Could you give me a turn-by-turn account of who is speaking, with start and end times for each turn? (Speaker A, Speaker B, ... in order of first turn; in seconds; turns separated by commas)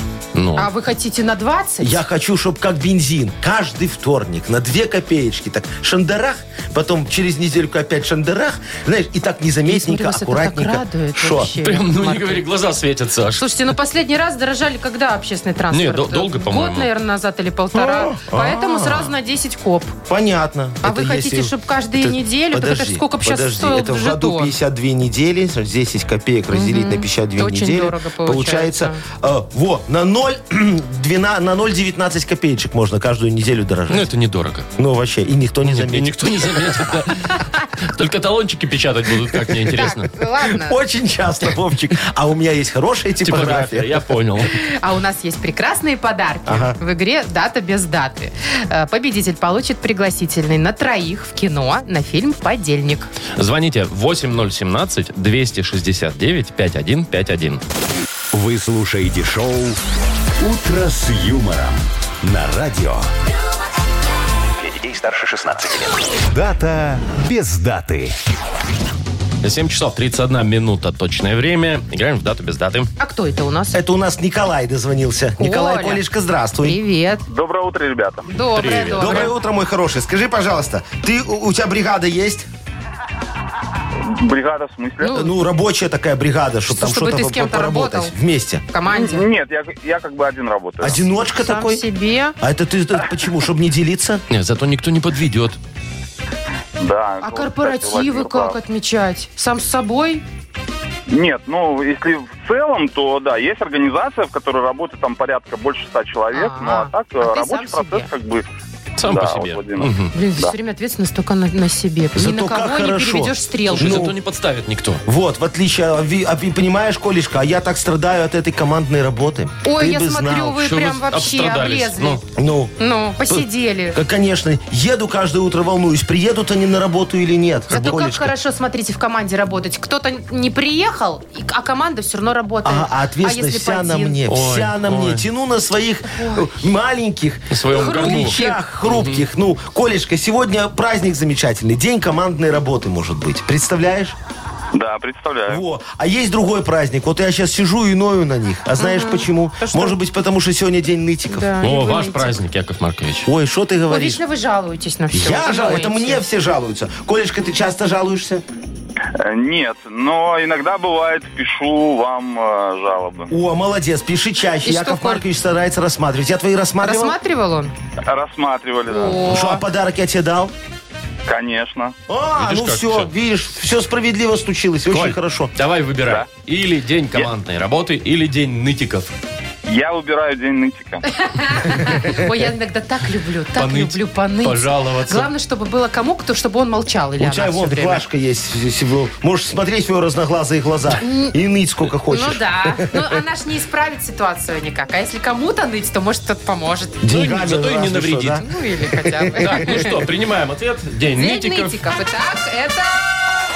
Speaker A: 0.3-0.7, Speaker B: 0.6-2.0, Speaker C: 1.8-11.5, Speaker B: 9.7-12.4, Speaker A: 11.6-13.4, Speaker B: 13.4-19.9, Speaker A: 15.7-16.9, Speaker C: 17.7-19.1, Speaker C: 20.1-34.1, Speaker B: 20.8-24.5, Speaker B: 26.5-29.0, Speaker A: 33.9-34.7, Speaker C: 34.8-36.9, Speaker A: 35.6-40.1, Speaker B: 39.7-40.8, Speaker C: 40.4-44.0, Speaker A: 43.2-44.6, Speaker B: 44.5-53.1, Speaker C: 46.5-46.8, Speaker A: 53.4-57.6, Speaker D: 58.3-59.8, Speaker D: 60.4-63.1, Speaker D: 64.6-68.1, Speaker A: 69.4-72.9, Speaker B: 73.0-73.8, Speaker C: 73.7-76.8, Speaker B: 75.4-76.0, Speaker B: 76.6-77.2, Speaker E: 77.3-78.2, Speaker B: 78.3-79.3, Speaker A: 78.5-79.3, Speaker C: 79.0-82.5, Speaker E: 84.0-85.2, Speaker C: 85.0-88.6, Speaker B: 86.7-88.1, Speaker B: 88.7-89.3, Speaker E: 88.9-91.0, Speaker C: 90.8-91.8, Speaker B: 91.3-92.3, Speaker C: 92.4-94.2, Speaker A: 94.3-95.6, Speaker E: 96.8-98.6, Speaker B: 97.2-100.2, Speaker E: 101.1-108.5, Speaker B: 106.3-108.1, Speaker A: 109.0-110.1, Speaker E: 109.0-110.5, Speaker B: 110.1-114.0, Speaker C: 112.1-114.2, Speaker A: 113.7-115.0, Speaker C: 115.0-120.6, Speaker B: 119.6-122.2, Speaker A: 120.6-122.2, Speaker C: 122.3-122.7, Speaker B: 122.8-124.0, Speaker C: 123.3-128.3, Speaker B: 127.7-134.2, Speaker C: 132.6-144.2, Speaker A: 134.3-135.2, Speaker B: 136.1-136.5, Speaker A: 137.5-139.2, Speaker B: 137.7-138.6, Speaker E: 144.7-145.6, Speaker C: 145.5-151.5, Speaker B: 148.8-149.9, Speaker B: 151.3-152.4, Speaker A: 151.6-153.3, Speaker C: 153.2-154.2, Speaker B: 153.9-156.2, Speaker C: 155.1-158.4, Speaker E: 159.2-163.3, Speaker C: 163.3-167.2, Speaker B: 164.6-165.2, Speaker B: 166.8-167.7, Speaker E: 168.1-169.3, Speaker B: 168.9-169.6, Speaker C: 169.2-170.5, Speaker E: 171.3-171.9, Speaker C: 172.1-175.5, Speaker A: 172.4-173.1, Speaker A: 174.9-179.1, Speaker E: 179.7-181.0, Speaker B: 181.0-188.0, Speaker A: 183.6-185.3, Speaker C: 187.2-193.2, Speaker B: 191.0-191.3, Speaker B: 192.1-197.0, Speaker C: 197.0-199.8, Speaker A: 197.1-198.4, Speaker B: 198.4-199.9, Speaker A: 199.4-201.8, Speaker B: 201.1-203.0